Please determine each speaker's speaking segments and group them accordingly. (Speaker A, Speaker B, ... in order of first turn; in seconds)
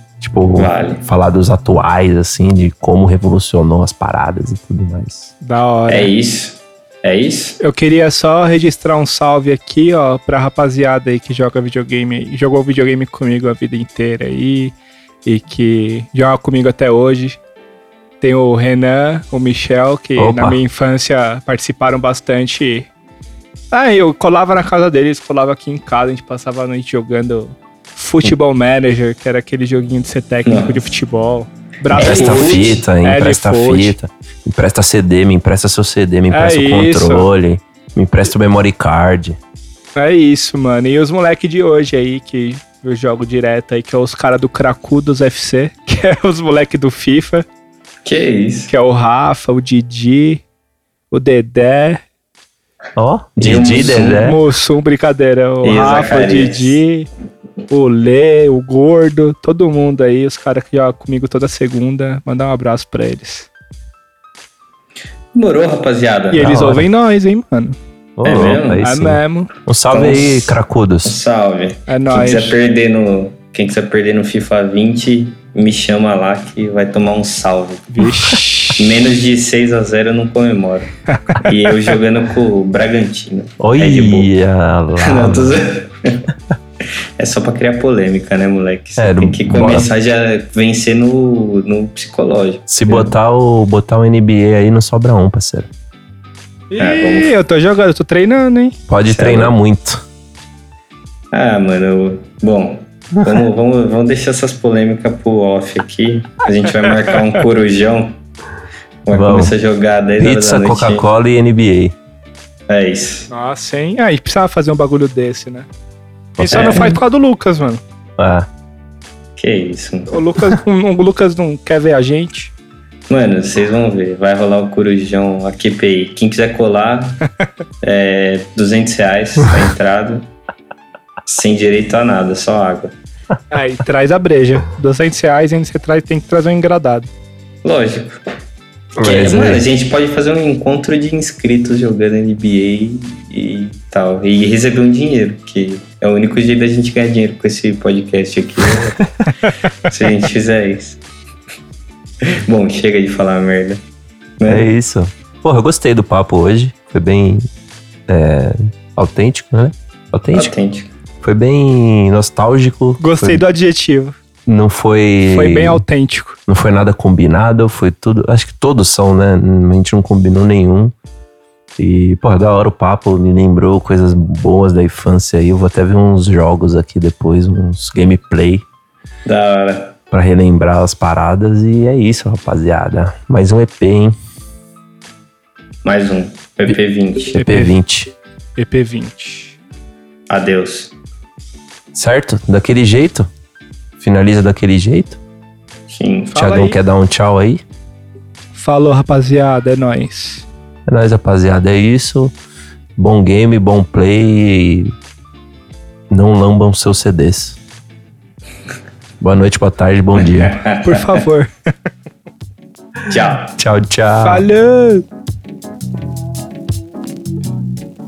Speaker A: 0.2-5.3, 20.2-20.6, 31.9-39.4, 53.0-54.4, 66.4-66.9, 68.2-71.2, 83.6-85.6, 89.0-89.9, 92.7-95.7, 98.9-100.0, 109.1-109.5, 110.2-112.0, 116.4-117.0, 118.2-118.5, 139.0-139.6, 154.5-157.5, 158.1-160.5, 161.2-163.4, 164.5-165.8, 166.5-170.9, 171.8-178.7, 180.1-184.2, 187.3-188.1, 191.9-193.3, 194.0-195.2, 196.3-197.6, 200.9-202.3, 203.0-204.9, 206.1-207.6, 209.2-210.6, 213.6-214.5
Speaker B: 0.6-1.0, 5.9-7.6, 30.4-30.9, 31.9-32.8, 48.0-48.7, 53.4-54.2, 55.6-56.8, 65.3-66.6, 68.2-68.8, 69.9-77.9, 78.8-84.3, 85.0-86.3, 87.2-93.1, 96.8-97.3, 99.1-99.5, 101.3-108.2, 109.1-111.0, 112.7-113.3, 116.5-117.0, 119.4-120.2, 123.1-127.2, 127.8-130.3, 131.3-132.9, 137.6-138.2, 139.0-149.1, 149.8-151.0, 152.2-153.8, 154.4-154.7, 160.3-160.9, 179.3-180.0, 185.8-187.4, 190.3-190.9, 195.9-196.4, 210.3-211.2, 213.1-213.6
Speaker C: 5.4-6.1, 7.6-17.4, 18.2-22.9, 23.7-34.0, 36.3-37.3, 40.0-47.5, 48.7-50.4, 51.1-52.0, 54.1-57.1, 57.7-63.5, 66.3-67.8, 68.8-69.5, 71.9-72.6, 77.9-78.9, 81.1-81.5, 96.7-98.8, 113.3-115.7, 116.5-117.8, 120.1-122.5, 133.5-137.1, 163.0-164.2, 165.3-166.4, 187.3-187.7, 188.6-189.6, 196.3-196.8, 198.5-200.5, 210.8-211.5, 214.2-215.1